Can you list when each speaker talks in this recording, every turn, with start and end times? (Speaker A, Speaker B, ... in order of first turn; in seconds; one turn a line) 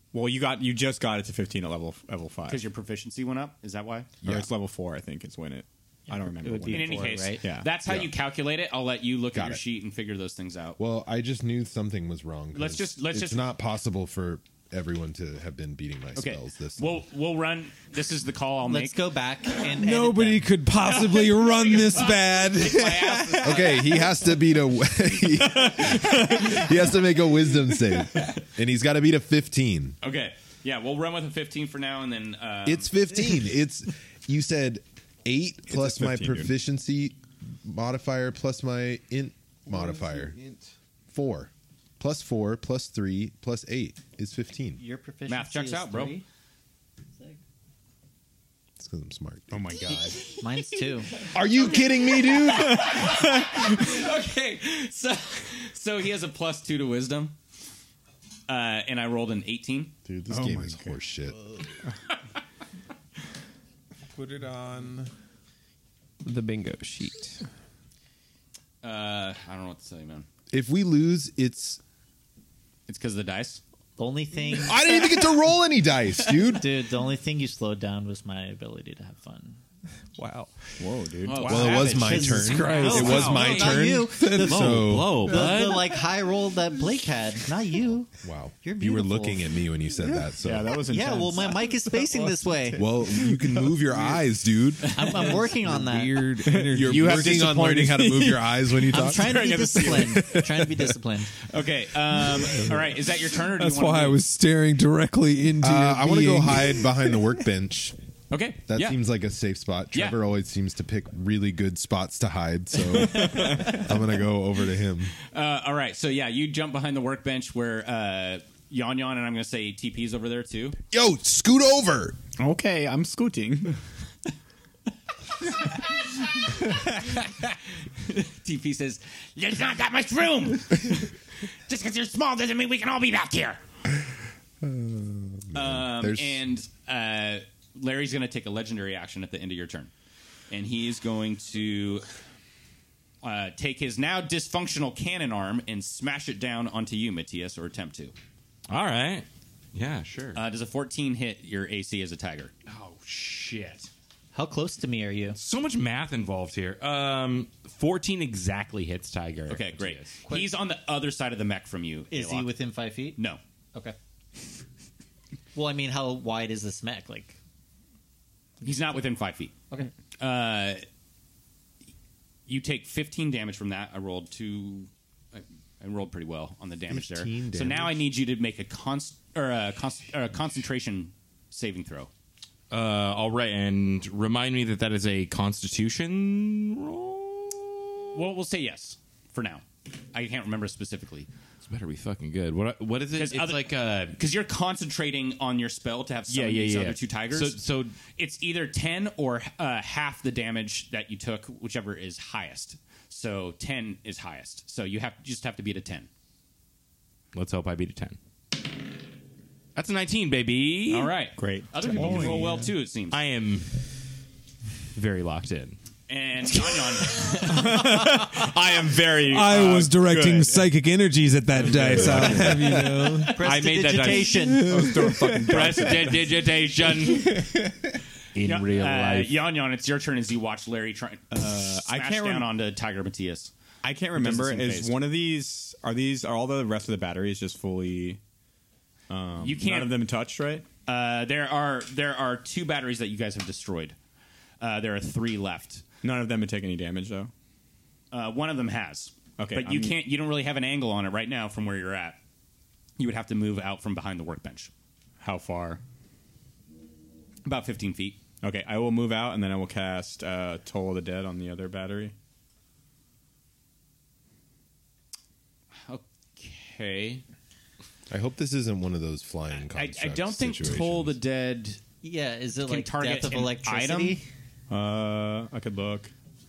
Speaker A: 0.1-2.6
Speaker B: 2.5-4.1
Speaker C: 4.2-4.5
Speaker A: 4.2-7.7
Speaker D: 6.1-7.4
Speaker B: 6.7-10.8
Speaker C: 7.8-8.1
Speaker C: 9.3-9.6
Speaker C: 10.8-17.0
Speaker B: 12.5-13.4
Speaker B: 16.1-19.0
Speaker D: 18.6-20.5
Speaker E: 19.6-24.1
Speaker B: 20.8-24.0
Speaker C: 23.4-30.0
Speaker B: 30.0-32.9
Speaker C: 32.6-40.4
Speaker A: 35.7-36.5
Speaker E: 39.7-40.7
Speaker C: 41.1-44.8
Speaker D: 44.8-46.2
Speaker B: 45.3-46.2
Speaker C: 48.8-50.0
Speaker A: 49.5-50.3
Speaker B: 50.0-50.2
Speaker D: 50.4-51.2
Speaker B: 51.2-57.3
Speaker C: 51.3-53.1
Speaker A: 52.4-53.6
Speaker B: 58.5-59.9
Speaker C: 60.0-61.5
Speaker A: 60.3-61.0
Speaker E: 64.1-65.1
Speaker E: 66.2-67.4
Speaker B: 68.8-70.3
Speaker C: 70.5-71.8
Speaker B: 72.9-73.6
Speaker D: 74.0-75.3
Speaker C: 74.5-76.8
Speaker D: 76.3-79.6
Speaker E: 80.1-80.7
Speaker A: 80.8-81.8
Speaker B: 81.2-82.3
Speaker C: 81.4-85.3
Speaker D: 81.8-89.5
Speaker E: 81.9-84.6
Speaker F: 83.0-86.0
Speaker E: 85.3-85.7
Speaker C: 88.2-90.8
Speaker A: 90.4-91.9
Speaker D: 90.9-92.9
Speaker C: 92.8-95.5
Speaker D: 94.9-96.2
Speaker E: 95.2-98.4
Speaker A: 96.4-97.5
Speaker C: 96.5-99.8
Speaker D: 98.8-101.4
Speaker A: 98.9-100.4
Speaker B: 101.5-104.2
Speaker E: 103.4-107.3
Speaker C: 105.6-108.0
Speaker B: 108.3-109.0
Speaker C: 108.6-115.1
Speaker B: 109.9-110.2
Speaker A: 112.9-113.8
Speaker B: 113.3-113.8
Speaker B: 115.3-120.8
Speaker C: 120.9-122.2
Speaker A: 122.4-123.8
Speaker B: 126.2-131.1
Speaker B: 131.7-133.6
Speaker C: 133.9-136.4
Speaker B: 135.5-139.9
Speaker B: 140.5-142.1
Speaker B: 143.2-148.1
Speaker F: 148.7-150.4
Speaker B: 150.3-152.5
Speaker F: 152.7-153.9
Speaker D: 154.3-155.4
Speaker F: 155.3-160.1
Speaker B: 159.5-162.5
Speaker D: 160.2-160.5
Speaker D: 162.1-163.2
Speaker D: 165.5-167.4
Speaker B: 168.6-169.5
Speaker B: 170.2-170.8
Speaker B: 172.5-182.1
Speaker C: 176.9-178.0
Speaker F: 182.7-187.8
Speaker B: 188.1-191.3
Speaker F: 191.6-194.2
Speaker B: 193.1-206.1
Speaker F: 196.3-197.9
Speaker F: 207.3-208.2
Speaker F: 209.7-211.1
Speaker B: 210.9-213.2
Speaker A: 211.4-212.6
Speaker E: 211.9-212.7
Speaker F: 212.0-212.3
Speaker F: 213.1-213.8
Speaker F: 214.9-215.8
Speaker B: 216.1-217.6
Speaker A: 217.4-220.7
Speaker E: 219.2-225.9
Speaker A: 221.5-223.0
Speaker F: 221.9-222.7
Speaker D: 223.3-224.9
Speaker F: 223.4-224.4
Speaker A: 224.6-226.4
Speaker F: 225.4-227.7
Speaker E: 227.1-227.7
Speaker F: 228.3-229.4
Speaker B: 228.4-233.5
Speaker A: 231.3-232.5
Speaker A: 233.8-238.2
Speaker B: 234.1-234.9
Speaker A: 239.1-240.7
Speaker B: 239.4-239.9
Speaker B: 240.8-243.9
Speaker B: 244.6-245.8
Speaker A: 246.0-247.3
Speaker B: 248.1-252.2
Speaker A: 249.4-250.0
Speaker B: 253.0-254.7
Speaker A: 255.2-255.8
Speaker B: 257.4-258.2
Speaker A: 258.4-262.1
Speaker B: 265.9-267.2
Speaker C: 268.1-271.2
Speaker B: 269.6-271.8
Speaker D: 272.0-274.2
Speaker B: 272.6-274.2
Speaker A: 274.7-276.1